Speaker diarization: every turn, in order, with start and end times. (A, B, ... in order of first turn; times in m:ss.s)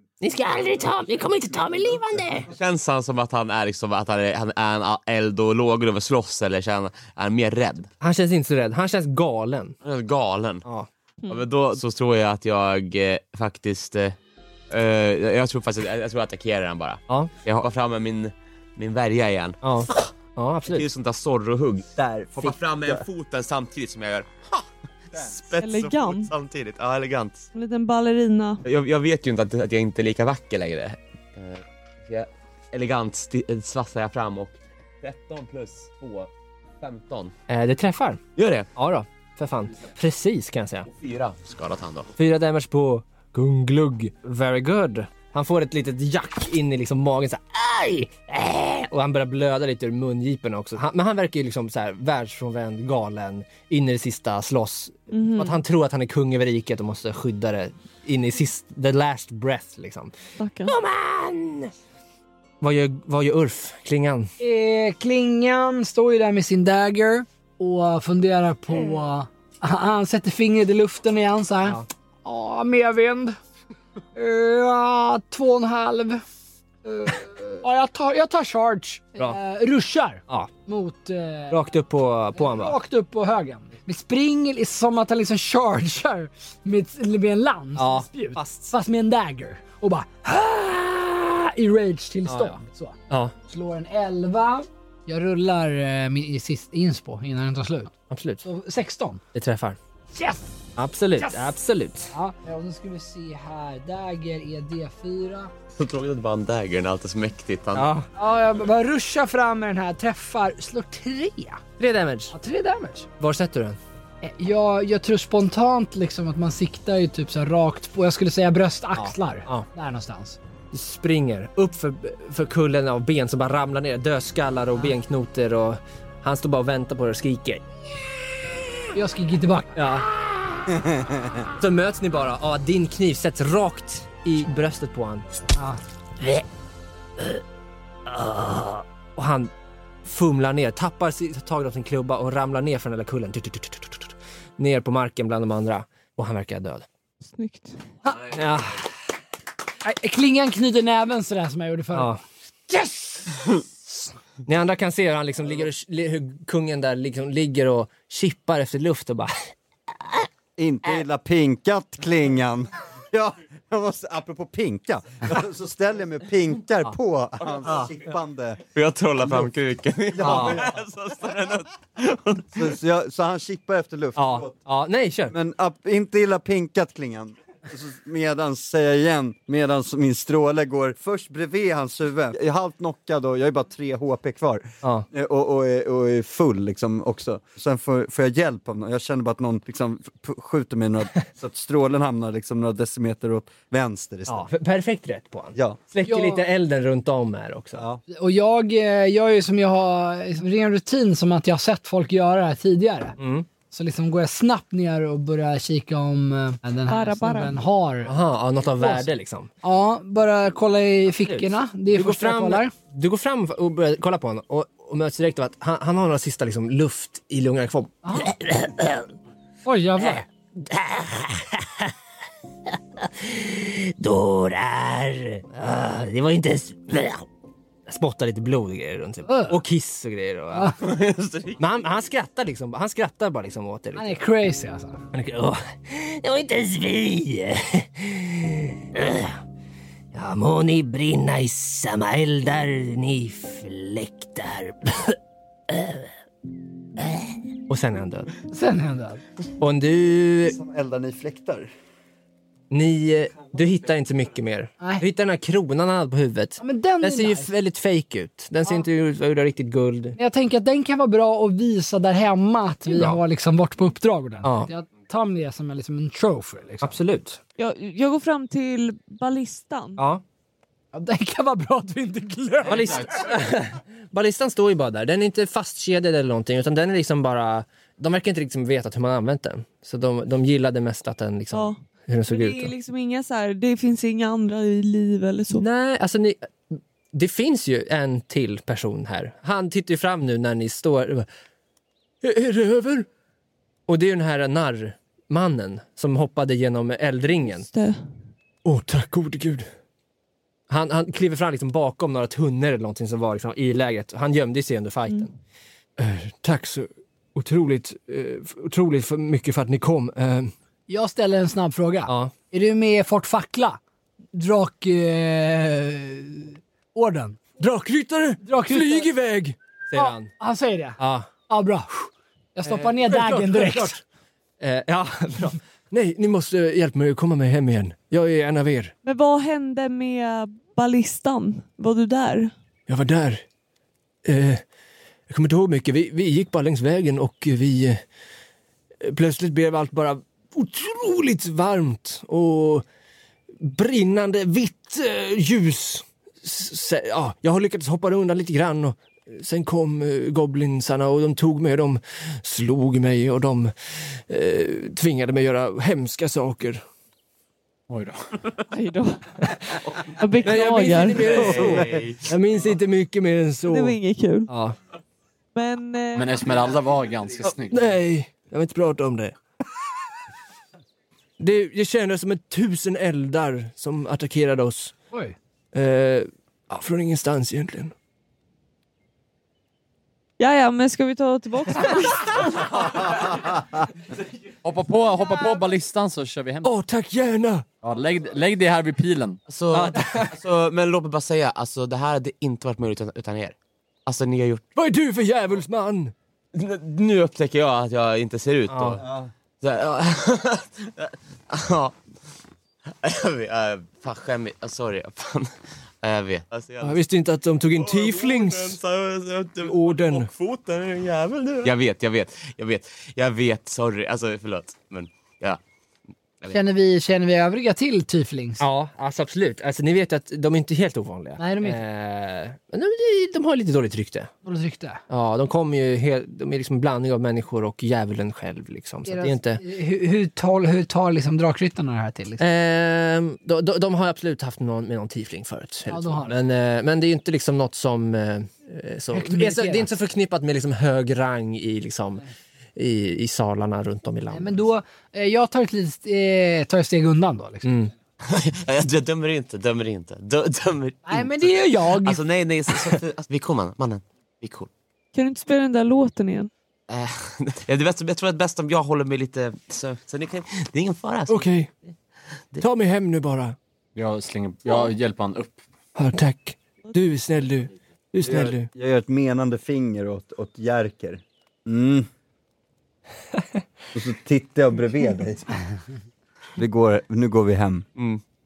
0:00.2-0:02.5 A
0:02.5-0:07.9 B
0:08.0-0:09.8 A
0:09.8-0:10.6 B
0:11.3-0:14.2 B
0:14.7-0:20.1 B
0:19.6-0:20.9 A
0:20.7-0:27.5 B
0:22.0-0:22.6 C
0:25.6-0:26.3 D
0:27.6-0:28.6 D
0:28.6-0:36.3 B
0:36.8-0:37.3 B
0:37.5-0:38.2 A
0:38.4-0:38.7 B
0:38.8-0:40.9 A
0:40.9-0:42.1 B
0:42.2-1:01.7 A
0:55.1-0:55.6 D
1:00.4-1:00.8 D
1:02.6-1:04.3 A
1:04.4-1:13.4 E
1:14.2-1:16.2 E
1:16.8-1:21.6 E
1:21.5-1:22.8 A
1:22.4-1:37.9 E
1:27.8-1:28.7 A
1:32.3-1:33.4 A
1:38.1-1:38.4 A
1:38.4-1:39.2 E
1:39.3-1:39.8 A
1:40.1-1:40.6 E
1:40.8-1:42.2 A
1:41.2-1:41.5 E
1:42.1-1:45.5 E
1:45.8-1:47.9 B
1:47.8-1:48.1 A
1:48.2-1:51.6 E
1:51.8-1:52.4 A
1:52.3-1:53.1 E
1:53.2-1:53.8 A
1:54.2-2:00.4 E
1:59.0-1:59.7 A
2:00.7-2:07.6 A
2:09.0-2:09.8 E
2:09.7-2:10.1 A
2:10.7-2:11.4 C
2:11.6-2:15.3 A
2:18.1-2:19.5 A
2:20.0-2:26.9 A
2:27.3-2:27.8 D
2:28.0-2:28.4 E
2:28.2-2:28.9 A
2:29.8-2:32.2 E
2:31.9-2:32.2 A
2:32.7-2:33.6 E
2:34.4-2:39.5 A
2:40.6-2:48.6 C
2:48.8-2:52.7 B
2:50.1-2:50.7 C
2:50.2-2:50.6 A
2:52.5-2:54.5 C
2:54.2-2:55.4 A
2:55.3-3:14.5 C
3:14.3-3:17.8 A
3:16.1-3:16.5 E
3:17.8-3:18.0 C
3:18.1-3:23.2 E
3:23.2-3:23.5 A
3:23.7-3:28.2 E
3:26.9-3:27.6 D
3:28.1-3:29.5 A
3:28.8-3:29.1 E
3:29.6-3:32.7 E
3:31.3-3:39.1 A
3:38.0-3:38.3 E
3:39.6-3:40.3 E
3:40.0-3:41.9 A
3:42.7-3:47.3 A
3:47.9-3:50.8 A
3:49.3-3:49.6 E
3:50.8-3:51.6 B
3:51.6-3:54.2 A
3:54.0-3:55.0 E
3:55.1-3:59.4 A
4:00.1-4:05.2 A
4:05.7-4:06.1 A
4:07.0-4:08.3 A
4:08.5-4:09.2 E
4:09.6-4:10.6 A
4:10.4-4:11.7 C
4:12.7-4:20.2 A
4:14.8-4:15.0 E
4:16.6-4:17.5 E
4:20.2-4:27.0 E
4:22.9-4:23.2 A
4:24.4-4:24.7 A
4:26.8-4:27.4 A
4:27.6-4:30.0 D
4:30.0-4:30.2 A
4:30.9-4:33.3 E
4:32.6-4:42.7 A
4:41.5-4:45.6 D
4:45.6-4:51.3 A
4:52.2-4:53.1 A
4:53.9-4:57.7 A
4:57.4-4:58.0 D
4:58.6-4:59.7 A
5:00.7-5:05.3 A
5:06.0-5:10.5 A
5:10.9-5:13.8 E
5:12.1-5:12.3 A
5:14.3-5:17.4 E
5:17.6-5:20.3 A
5:18.4-5:19.1 E
5:20.0-5:24.0 E
5:21.0-5:21.3 A
5:22.6-5:23.9 A
5:24.6-5:28.9 A
5:29.0-5:32.5 D
5:32.9-5:33.4 A
5:34.2-5:34.6 A
5:35.3-5:38.0 A
5:39.0-5:42.8 A
5:43.6-5:56.8 A
5:57.9-5:58.4 F
5:58.7-5:59.3 D
6:00.0-6:01.8 D
6:00.4-6:04.0 A
6:01.2-6:02.2 B
6:03.7-6:04.5 D
6:04.5-6:04.8 A
6:05.6-6:06.5 D
6:06.2-6:07.9 F
6:07.5-6:09.4 A
6:11.4-6:14.9 A
6:15.1-6:15.4 E
6:15.7-6:17.9 A
6:20.4-6:23.2 D
6:24.6-6:26.7 F
6:26.6-6:27.7 A
6:27.8-6:29.4 F
6:29.5-6:34.6 B
6:29.7-6:30.4 A
6:34.8-6:36.1 A
6:36.5-6:39.0 B
6:38.7-6:39.0 A
6:39.0-6:39.3 C
6:39.6-6:42.0 B
6:42.9-6:47.0 B
6:46.8-6:48.8 A
6:47.7-6:55.6 B
6:49.6-6:50.3 A
6:56.5-6:58.6 E
6:58.6-7:04.3 A
7:01.4-7:01.8 E
7:04.4-7:05.0 E
7:05.1-7:09.6 A
7:09.1-7:12.4 E
7:12.4-7:22.2 A
7:15.9-7:16.4 E
7:19.1-7:19.9 E
7:22.8-7:24.7 A
7:24.3-7:27.7 E
7:27.6-7:27.9 A
7:28.2-7:34.7 B
7:31.1-7:32.2 E
7:35.1-7:36.5 D
7:36.9-7:41.5 B
7:41.3-7:41.7 A
7:42.6-7:43.6 A
7:44.0-7:45.6 F
7:46.0-7:48.7 A
7:48.2-7:52.1 C
7:53.9-7:55.6 C
7:56.6-7:57.9 C